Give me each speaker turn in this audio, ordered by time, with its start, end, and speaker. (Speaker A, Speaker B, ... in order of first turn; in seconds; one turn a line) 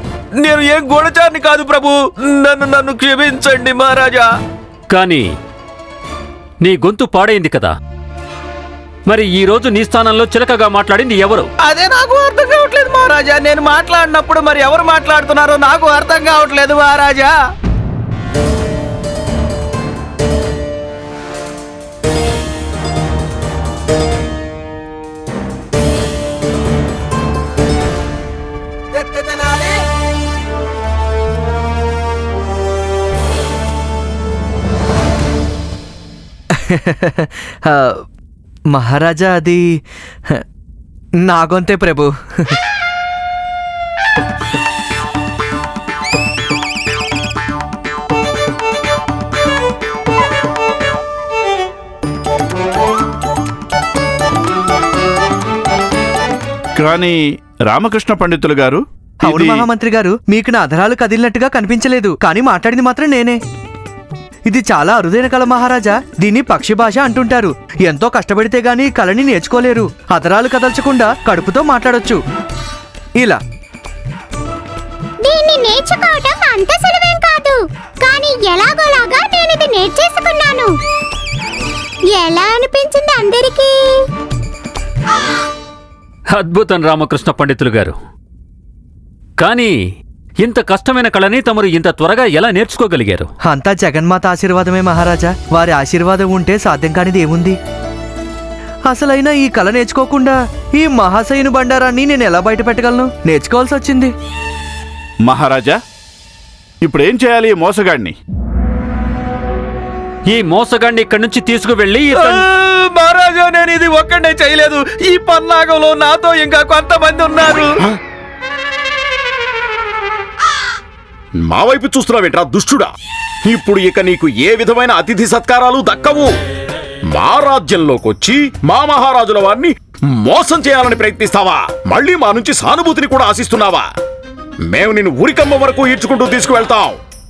Speaker A: 0.4-4.2
Speaker B: 4.9-5.3
Speaker B: 6.6-7.7
Speaker B: 9.1-11.5
Speaker A: 11.7-17.3
Speaker C: 36.5-38.0
Speaker C: 38.7-39.7
Speaker C: 41.2-42.6
Speaker D: 56.8-59.7
Speaker C: 59.2-63.4
Speaker C: 64.5-72.2
Speaker E: 75.2-80.7
Speaker E: 82.1-84.0
Speaker B: 86.3-88.0
Speaker B: 89.4-89.7
Speaker B: 90.4-93.3
Speaker C: 93.5-97.6
Speaker C: 98.9-104.1
Speaker D: 105.2-105.8
Speaker D: 106.8-108.2
Speaker B: 110.3-112.4
Speaker A: 112.2-117.8
Speaker F: 121.5-122.9
Speaker F: 123.5-126.3
Speaker F: 127.1-133.8
Speaker F: 134.7-137.0